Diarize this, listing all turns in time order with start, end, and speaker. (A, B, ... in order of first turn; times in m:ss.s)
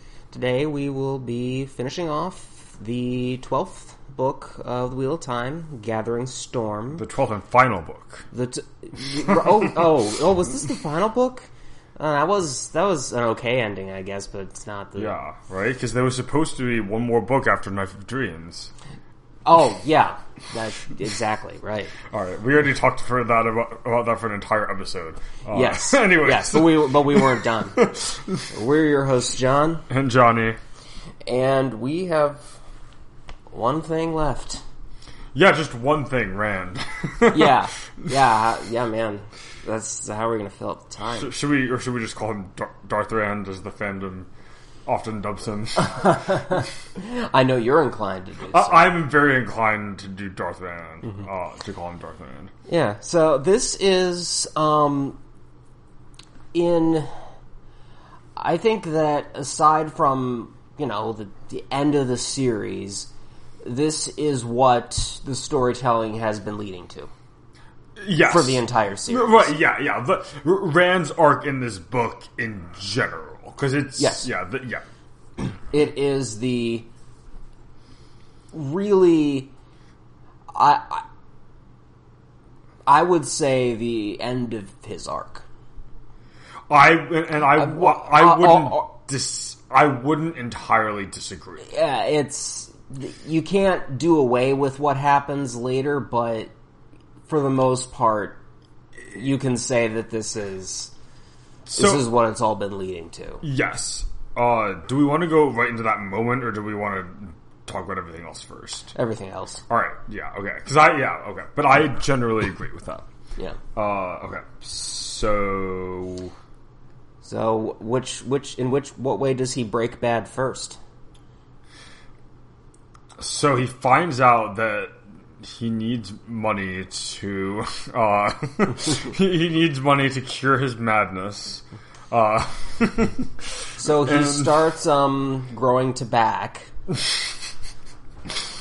0:00.3-0:07.0 A
0:07.0-0:08.3 B
0:08.3-0:15.2 A
0:09.2-0:09.8 B
0:15.0-0:18.7 B
0:19.4-0:22.0 A
0:22.0-0:28.5 B
0:25.5-0:27.9 A
0:28.5-0:29.8 A
0:29.9-0:30.6 B
0:31.2-0:32.6 A
0:33.5-0:34.6 A
0:35.3-0:38.1 B
0:37.3-0:41.3 A
0:41.1-0:44.3 B
0:44.9-0:46.6 B
0:45.8-0:49.0 A
0:48.5-0:52.5 B
0:52.7-0:55.2 A
0:56.5-0:57.1 A
0:58.4-1:03.1 A
1:03.6-1:07.1 A
1:08.0-1:14.8 B
1:08.3-1:09.5 A
1:14.0-1:14.3 A
1:15.7-1:16.9 A
1:18.5-1:19.5 A
1:20.5-1:21.0 A
1:22.9-1:25.4 A
1:26.7-1:31.7 B
1:27.5-1:28.9 A
1:31.6-1:36.5 A
1:37.3-1:38.4 A
1:39.1-1:40.9 A
1:41.7-1:42.1 B
1:41.7-1:43.4 A
1:43.4-1:48.9 B
1:48.9-1:49.6 A
1:49.7-1:53.1 B
1:53.8-1:56.3 B
1:57.2-2:00.8 A
2:03.2-2:14.7 B
2:13.8-2:16.7 A